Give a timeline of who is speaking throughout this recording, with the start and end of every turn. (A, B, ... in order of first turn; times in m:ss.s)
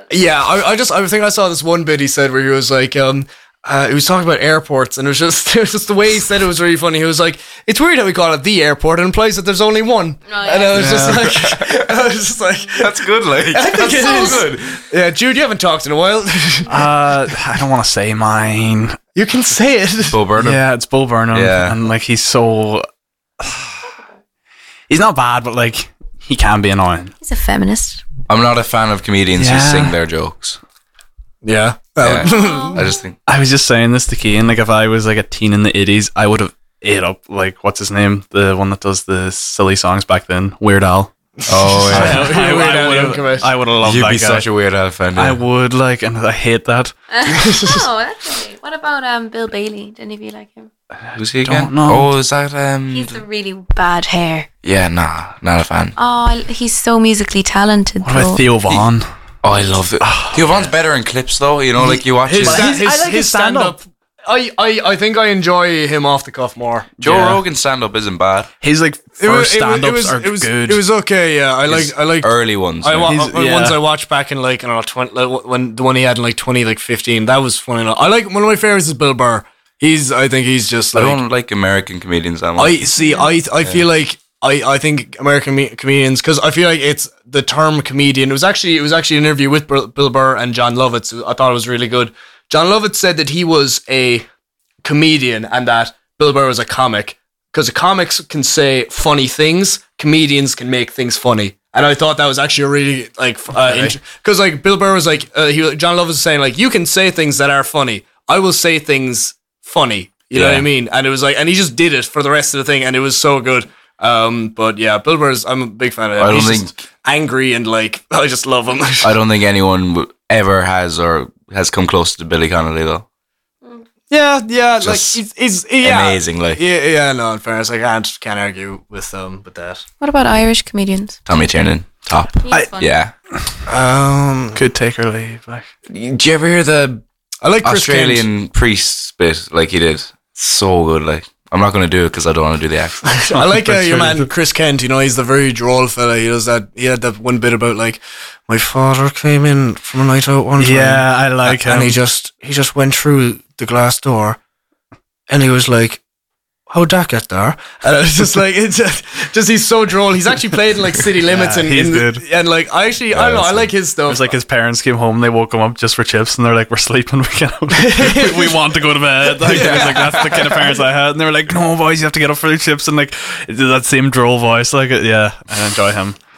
0:00.1-0:12.9 A
0:10.3-0:10.9 B
0:10.7-0:11.3 C
0:10.8-0:12.0 D
0:12.7-0:14.6 D
0:13.5-0:16.8 A
0:14.0-0:14.5 B
0:16.7-0:19.0 C
0:19.2-0:20.2 A
0:20.1-0:20.6 D
0:20.4-0:22.9 C
0:21.3-0:21.8 D
0:23.4-0:23.8 C
0:24.9-0:27.1 C
0:27.2-0:28.0 B
0:28.3-0:30.6 D
0:29.4-0:30.0 C
0:31.4-0:32.8 A
0:32.0-0:33.2 D
0:32.3-0:32.8 B
0:33.3-0:41.1 C
0:41.5-0:42.3 D
0:41.8-0:43.5 A
0:41.9-0:44.5 C
0:43.8-0:45.4 D
0:45.2-0:46.9 C
0:47.1-0:50.7 B
0:47.3-0:47.8 A
0:51.2-0:53.2 D
0:51.4-0:52.1 C
0:52.9-0:54.5 B
0:54.6-0:56.0 D
0:56.0-0:58.4 B
0:58.0-0:59.1 C
0:59.4-1:02.7 D
1:00.0-1:00.5 C
1:01.8-1:06.9 A
1:02.4-1:03.8 C
1:07.0-1:08.5 D
1:07.0-1:07.4 C
1:08.6-1:10.8 C
1:09.2-1:21.2 A
1:11.7-1:13.2 D
1:13.1-1:13.8 C
1:20.9-1:22.8 D
1:22.6-1:34.3 A
1:23.0-1:23.3 B
1:34.8-1:59.2 A
1:50.3-1:50.7 D
1:56.2-1:56.8 D
1:59.0-2:03.0 D
2:04.1-2:09.8 A
2:04.8-2:05.2 D
2:05.8-2:06.6 D
2:10.0-2:11.2 B
2:11.3-2:13.1 D
2:12.4-2:12.9 B
2:13.7-2:14.6 A
2:14.6-2:15.7 C
2:15.9-2:17.0 D
2:17.4-2:18.3 A
2:17.6-2:23.1 D
2:23.0-2:34.4 A
2:23.3-2:24.3 C
2:30.6-2:32.0 C
2:35.3-2:36.0 A
2:36.7-2:44.3 A
2:41.2-2:42.2 C
2:43.1-2:43.7 D
2:44.1-2:56.2 C
2:47.8-2:48.6 A
2:49.4-2:50.5 A
2:49.5-2:50.5 D